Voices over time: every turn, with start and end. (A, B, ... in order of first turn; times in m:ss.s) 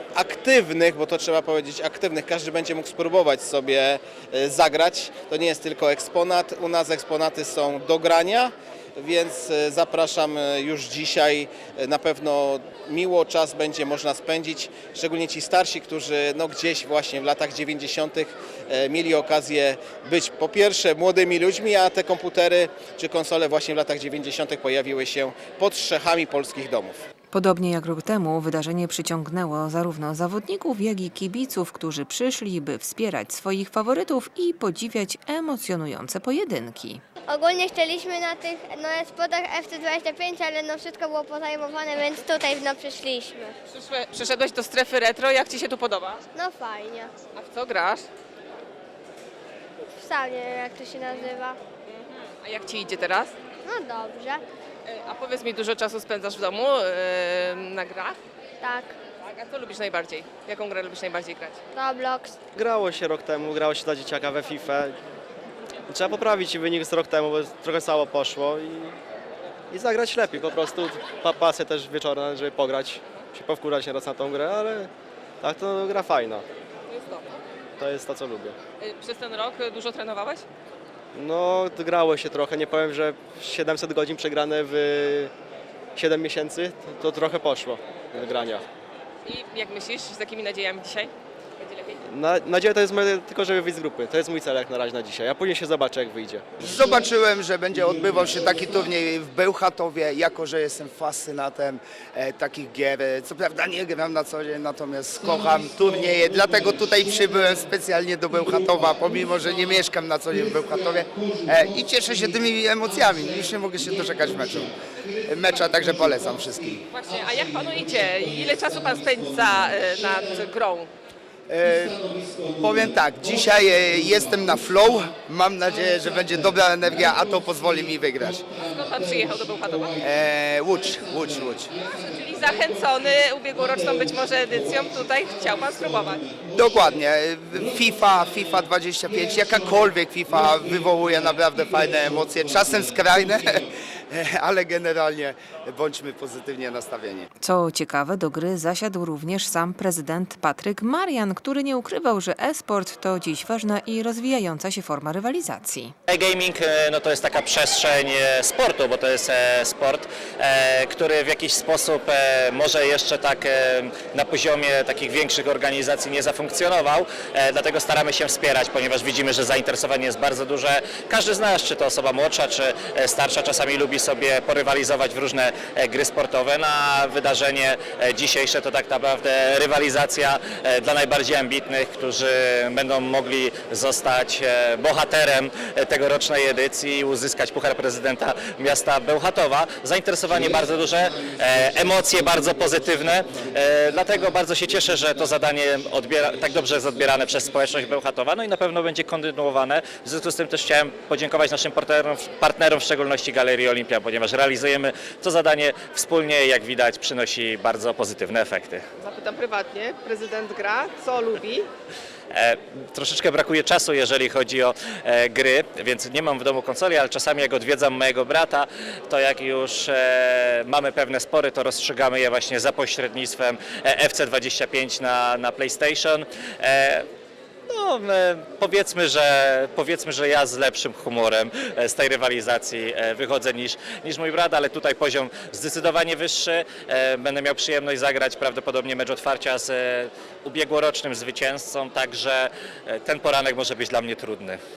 0:00.1-0:27.0 A
0:27.3-0:37.0 B
0:37.3-0:43.5 C
0:43.7-0:46.2 D
0:46.4-0:47.1 C
0:47.3-0:48.0 D
0:50.0-0:51.6 C
0:51.9-0:53.3 D
0:53.7-0:54.4 C
0:54.9-0:58.2 D
0:58.6-0:59.0 C
0:59.2-1:01.6 D
1:01.8-1:02.4 C
1:02.5-1:05.0 E
1:05.9-1:09.0 E
1:09.7-1:14.9 E
1:15.4-1:16.4 E
1:16.9-1:17.3 D
1:17.8-1:18.6 E
1:18.8-1:20.4 D
1:21.1-1:25.3 E
1:26.0-1:28.6 E
1:29.2-1:32.0 D
1:32.0-1:36.4 E
1:36.6-1:54.7 F
1:55.2-1:56.8 F
1:56.9-2:00.9 D
2:01.5-2:08.4 F
2:08.6-2:10.0 D
2:10.0-2:11.7 F
2:11.7-2:16.3 D
2:16.5-2:27.3 F
2:27.4-2:35.9 B
2:36.1-3:28.8 G
3:29.0-3:31.7 D
3:32.3-3:47.1 G
3:47.7-4:04.6 G